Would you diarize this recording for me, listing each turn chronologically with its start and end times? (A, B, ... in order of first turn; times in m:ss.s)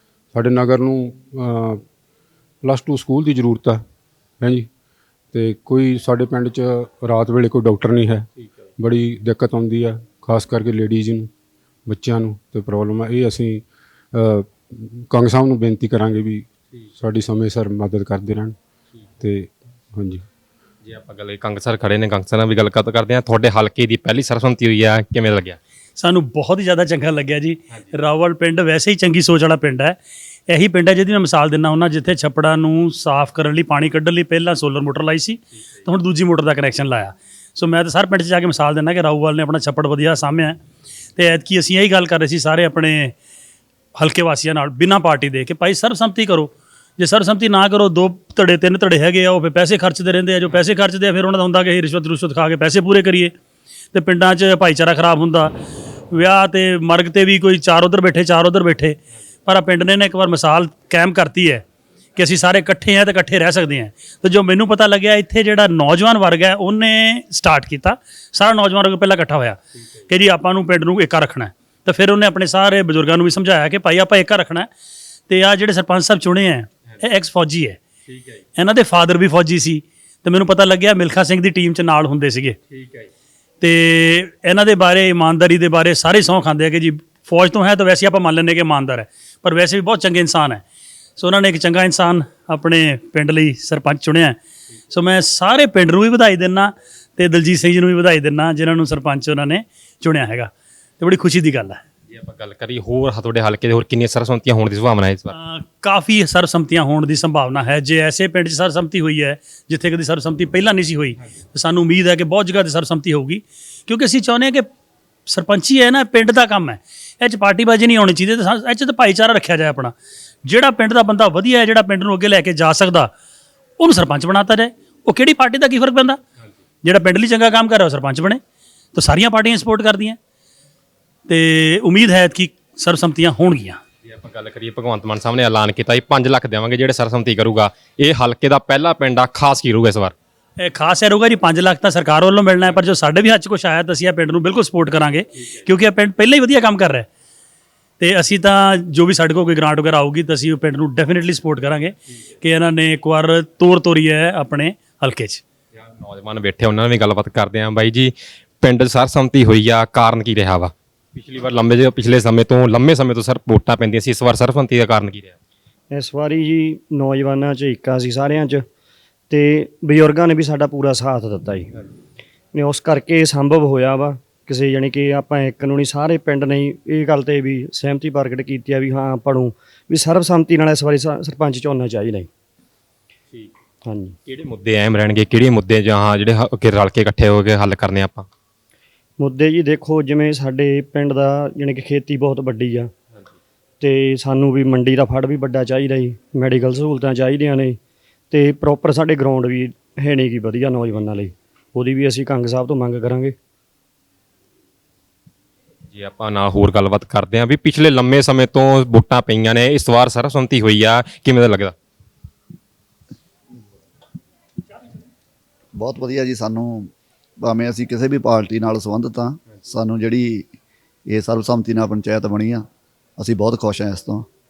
0:00.3-0:01.8 A
0:02.6-0:03.8 A
0:04.4-0:04.7 A
0:05.3-0:11.3 A
0:11.9-0:18.6 A
0:19.2-0:20.2 A
0:20.8-0:25.6 B
0:26.0-0:30.0 C
0:30.5-0:40.6 C
0:41.2-0:43.1 C
0:44.0-0:53.3 C
0:53.9-0:55.6 C
0:56.1-1:01.6 C
1:02.2-1:14.7 C
1:15.3-1:17.8 C
1:18.1-1:18.4 B
1:18.6-1:22.6 C
1:22.7-1:23.1 B
1:23.6-1:30.6 C
1:31.2-1:34.4 C
1:34.9-1:41.8 C
1:42.1-1:45.3 B
1:45.4-1:54.7 C
1:55.3-2:03.1 C
2:03.8-2:06.2 C
2:06.8-2:08.4 C
2:09.0-2:10.2 C
2:11.3-2:13.8 C
2:14.0-2:20.1 B
2:20.6-2:27.1 C
2:28.0-2:35.4 C
2:35.8-2:45.4 B
2:45.9-2:48.6 D
2:49.3-2:51.7 D
2:52.5-3:02.3 D
3:03.9-3:04.2 D
3:04.3-3:08.3 B
3:09.2-3:12.9 D
3:13.8-3:17.8 D
3:18.3-3:23.4 D
3:25.9-3:31.7 B
3:35.8-3:36.9 E
3:37.4-3:40.5 E
3:41.1-3:42.7 E
3:43.2-3:44.3 E